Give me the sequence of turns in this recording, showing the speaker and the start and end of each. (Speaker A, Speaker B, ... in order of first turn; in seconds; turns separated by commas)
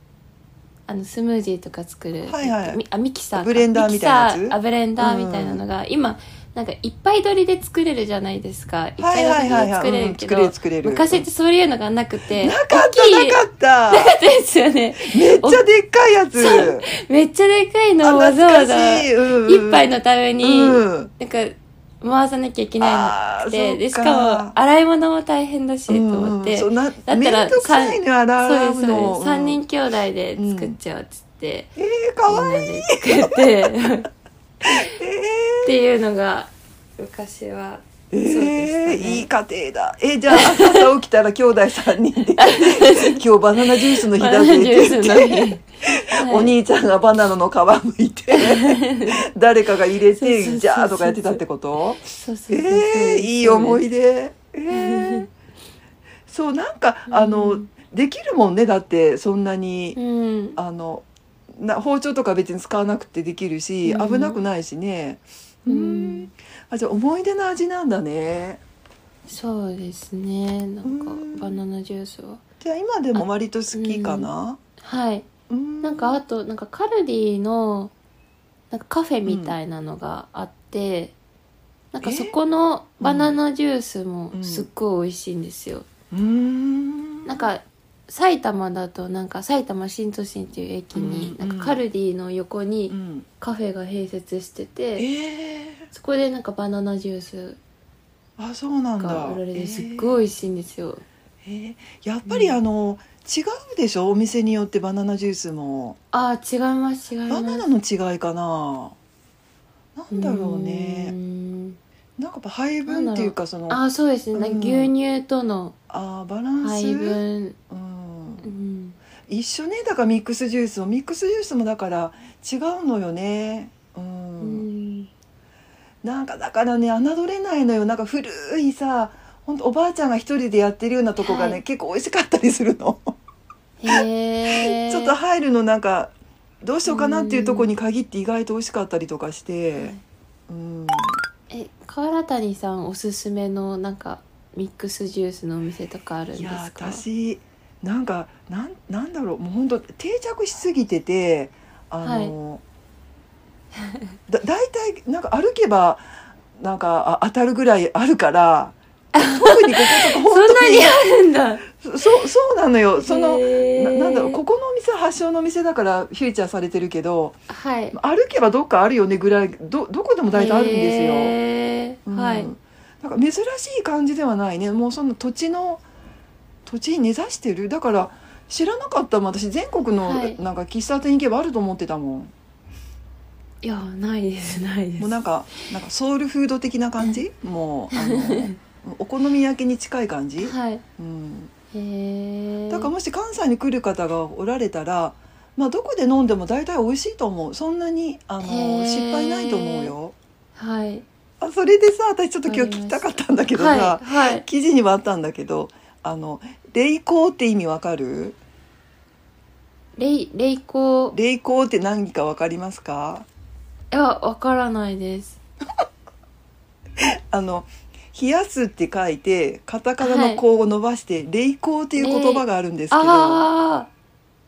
Speaker A: 0.9-15.7, Speaker B: 2.3-2.8, Speaker B: 3.3-5.6, Speaker B: 9.0-11.2, Speaker B: 12.4-14.2, Speaker B: 15.0-16.9, Speaker A: 16.4-31.7, Speaker B: 18.0-19.9, Speaker B: 20.4-21.1, Speaker B: 22.8-24.6, Speaker B: 25.9-29.6, Speaker B: 30.4-30.7, Speaker B: 31.8-33.7, Speaker A: 32.3-34.1, Speaker A: 34.6-34.9, Speaker B: 34.7-35.8, Speaker A: 35.6-39.3, Speaker B: 38.1-55.3, Speaker A: 40.4-40.9, Speaker A: 42.4-46.6, Speaker A: 48.3-49.1, Speaker A: 50.2-51.4, Speaker A: 52.1-53.8, Speaker A: 54.7-55.3, Speaker B: 56.3-60.0, Speaker A: 57.1-57.7, Speaker A: 60.0-60.6, Speaker B: 60.6-68.6, Speaker A: 63.8-64.5, Speaker A: 65.7-66.3, Speaker A: 69.3-72.4, Speaker B: 70.8-71.5, Speaker B: 72.6-74.6, Speaker A: 73.1-74.3, Speaker A: 74.8-75.3, Speaker B: 75.5-76.2, Speaker A: 75.8-77.9, Speaker A: 78.7-81.2, Speaker B: 79.2-79.5, Speaker A: 81.9-85.9, Speaker B: 82.0-82.3, Speaker B: 83.0-83.4, Speaker B: 84.3-84.7, Speaker B: 86.1-87.5, Speaker A: 87.3-95.1, Speaker B: 91.0-91.8, Speaker B: 92.9-93.3, Speaker B: 95.0-95.9, Speaker A: 95.9-97.6, Speaker B: 98.4-100.2, Speaker A: 99.0-101.0, Speaker B: 101.4-106.0, Speaker A: 102.3-102.6, Speaker A: 106.1-107.7, Speaker B: 107.3-109.0, Speaker B: 110.0-111.2, Speaker A: 110.1-111.8, Speaker B: 112.2-113.8, Speaker A: 112.9-115.8, Speaker B: 114.3-114.9, Speaker B: 115.9-118.5, Speaker A: 116.6-117.6, Speaker A: 118.4-119.0, Speaker B: 119.3-124.7, Speaker A: 124.4-125.1, Speaker B: 126.0-133.1, Speaker A: 131.2-131.6, Speaker A: 133.8-135.2, Speaker B: 133.9-136.1, Speaker B: 136.6-139.9, Speaker A: 136.9-137.7, Speaker A: 139.8-140.0, Speaker B: 140.5-141.2, Speaker A: 141.5-147.0, Speaker B: 146.4-152.6, Speaker A: 152.0-152.3, Speaker B: 154.3-156.1, Speaker B: 156.6-161.0, Speaker A: 159.2-161.7, Speaker B: 161.8-167.4, Speaker A: 163.0-164.4, Speaker A: 167.5-168.0, Speaker B: 167.9-171.4, Speaker A: 170.3-172.5, Speaker B: 172.1-175.8, Speaker B: 176.7-182.3, Speaker A: 180.0-180.4, Speaker A: 183.6-185.2, Speaker B: 185.0-191.5, Speaker A: 187.9-188.5, Speaker A: 190.4-190.8, Speaker A: 191.7-192.9, Speaker B: 192.7-200.2, Speaker A: 198.4-199.9, Speaker A: 200.6-201.1, Speaker B: 201.4-208.4, Speaker A: 202.4-204.4, Speaker A: 210.0-211.2, Speaker B: 211.1-213.3, Speaker A: 213.9-215.4, Speaker B: 217.0-223.4, Speaker A: 220.0-220.4, Speaker A: 222.0-223.9